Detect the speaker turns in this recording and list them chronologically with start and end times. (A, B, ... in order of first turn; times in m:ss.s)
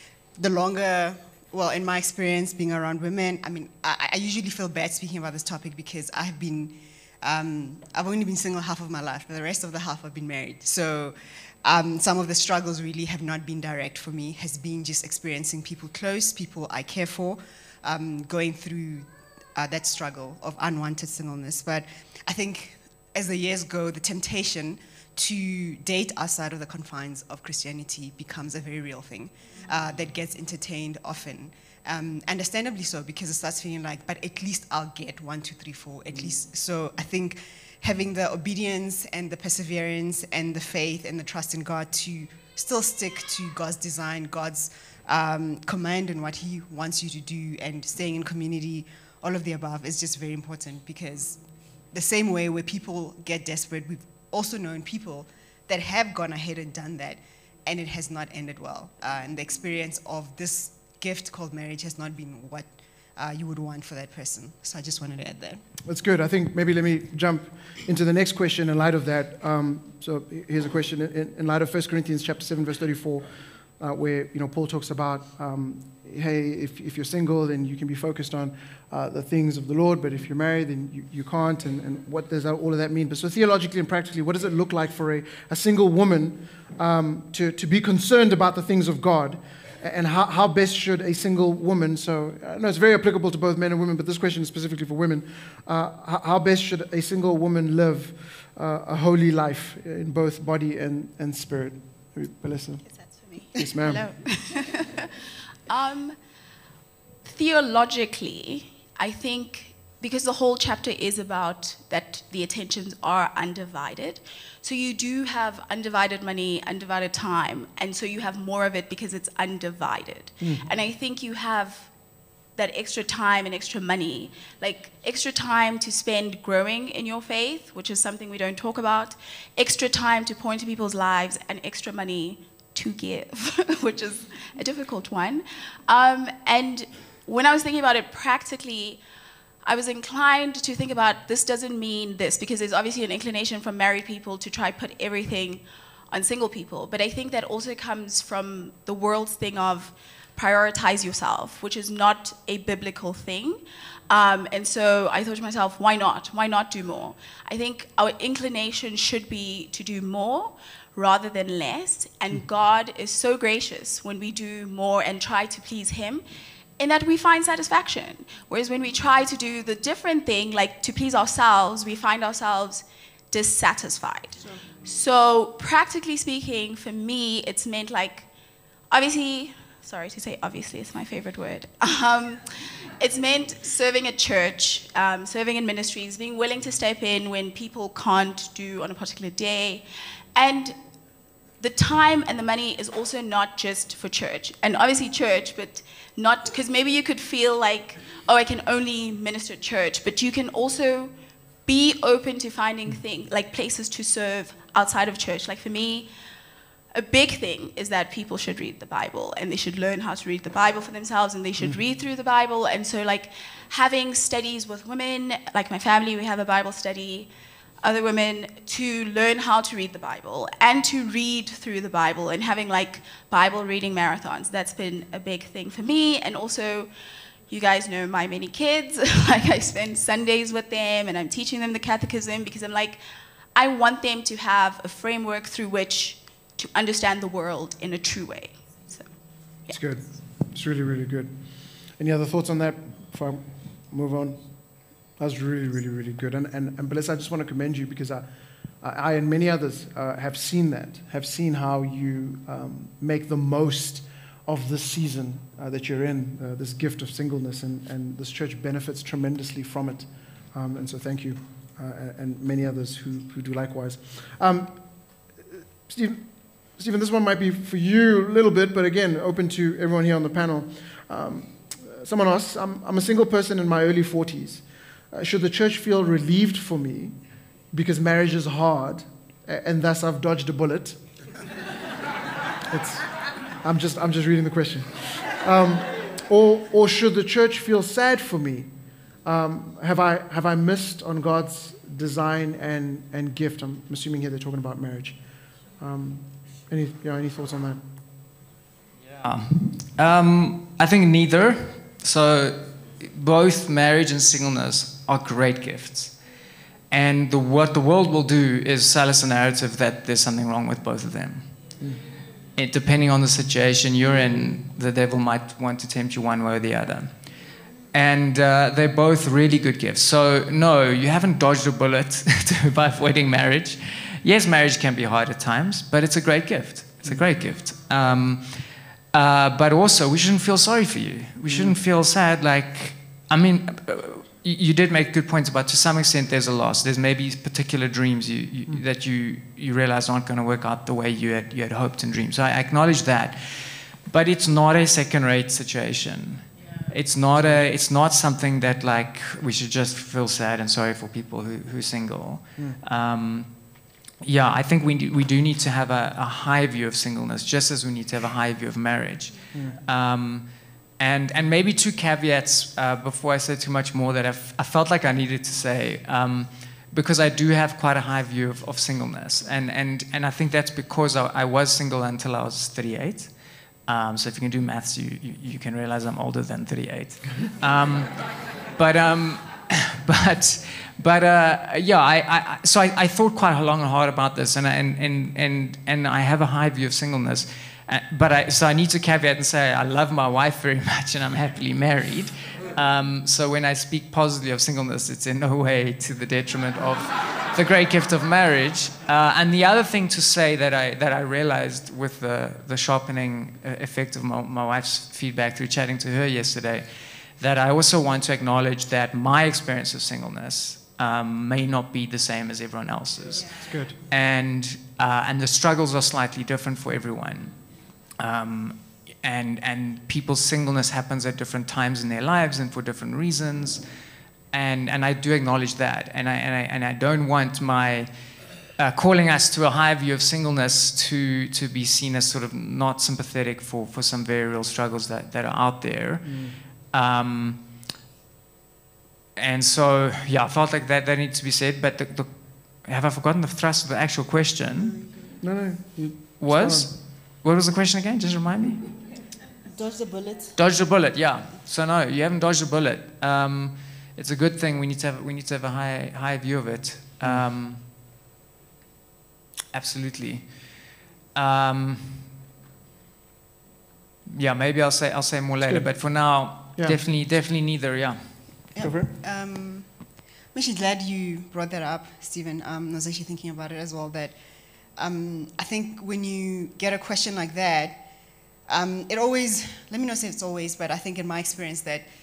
0:00.4-1:05.6 A
1:05.8-1:13.2 B
1:13.8-1:42.8 B
1:43.3-1:45.1 C
1:43.5-1:44.1 B
1:45.7-1:46.2 C
1:47.2-2:01.9 C
2:00.4-2:00.6 B
2:02.6-2:19.0 C
2:19.6-2:46.2 C
2:46.8-2:58.3 C
2:58.9-3:09.8 C
3:10.3-3:10.8 C
3:11.6-3:21.1 C
3:21.6-3:26.1 C
3:26.9-3:37.3 C
3:37.8-3:46.9 C
3:47.5-3:53.0 C
3:53.5-3:59.7 C
3:59.7-4:08.2 B
4:08.8-4:37.1 B
4:37.7-4:41.0 B
4:42.7-4:43.1 B
4:43.6-4:48.7 B
4:49.2-4:55.2 B
4:55.8-4:57.8 B
4:59.2-5:06.2 D
5:06.9-5:11.7 D
5:12.6-7:03.8 D
5:31.4-5:31.8 B
5:47.4-5:47.6 B
6:53.6-6:54.0 B
7:04.5-7:17.7 D
7:16.2-7:16.6 B
7:19.4-7:25.0 D
7:24.7-7:25.4 A
7:25.4-7:26.9 B
7:26.4-7:29.0 D
7:29.7-7:30.6 A
7:30.5-7:37.9 D
7:37.2-7:37.5 B
7:39.7-7:42.3 D
7:44.3-7:48.7 D
7:45.6-7:47.0 B
7:48.7-8:02.1 A
7:48.8-7:49.1 B